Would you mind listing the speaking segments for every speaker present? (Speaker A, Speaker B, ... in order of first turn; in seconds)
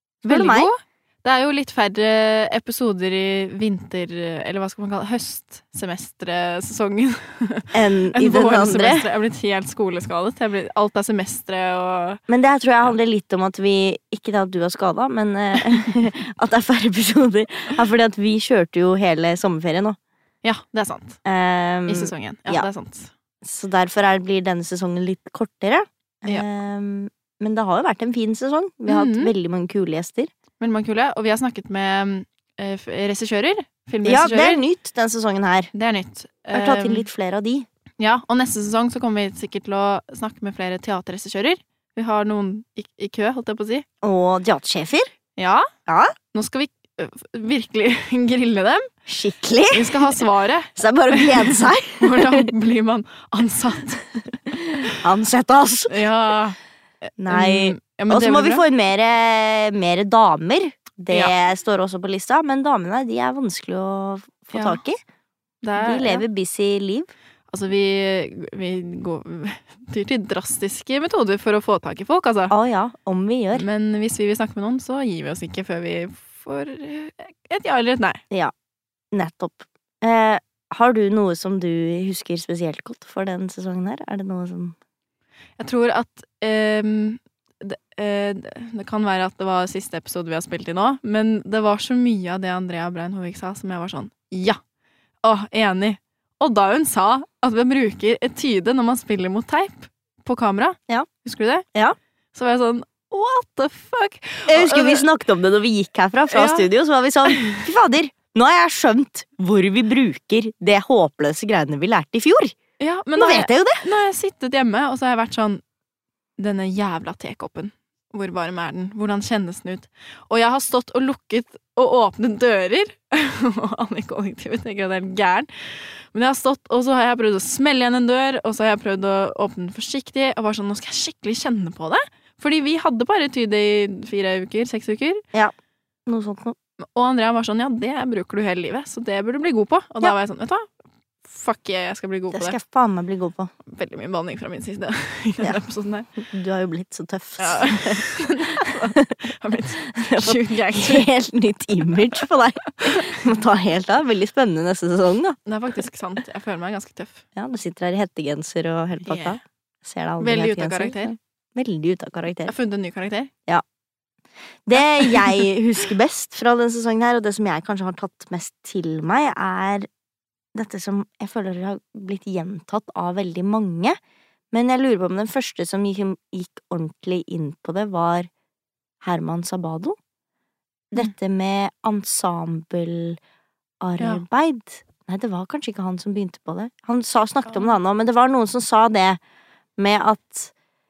Speaker A: 0.2-0.7, 7.7-9.1, 12.3-20.0, 21.2-22.7, 23.4-30.3, 34.0-35.7, 36.5-37.7, 44.0-45.1, 45.9-46.1, 49.1-50.1, 50.8-52.5, 54.5-55.9, 57.2-65.0, 65.8-67.1, 72.5-73.7, 79.1-84.8, 104.5-112.5, 113.2-113.8, 136.1-136.6, 142.3-143.5, 146.2-148.0, 150.0-155.4, 157.3-162.5, 164.7-169.9, 170.5-174.0, 174.5-178.3, 179.0-180.0, 180.9-183.2, 183.8-189.2, 189.8-190.5
Speaker B: 0.3-12.2, 20.4-21.2, 21.9-23.1, 28.9-29.3, 30.6-34.6, 35.7-37.1, 38.0-43.9, 45.4-45.7, 46.3-48.9, 49.7-54.0, 55.9-58.6, 64.5-64.8, 65.6-66.2, 67.5-72.5, 73.5-78.2, 85.6-94.6, 95.2-101.7, 102.3-105.1, 106.3-106.7, 107.3-107.6, 112.8-115.6, 116.4-135.2, 136.9-140.7, 141.2-142.6, 143.7-146.1, 147.4-151.1, 152.8-153.2, 155.5-157.2, 159.1-159.4, 160.2-161.2, 162.5-163.3, 164.8-165.4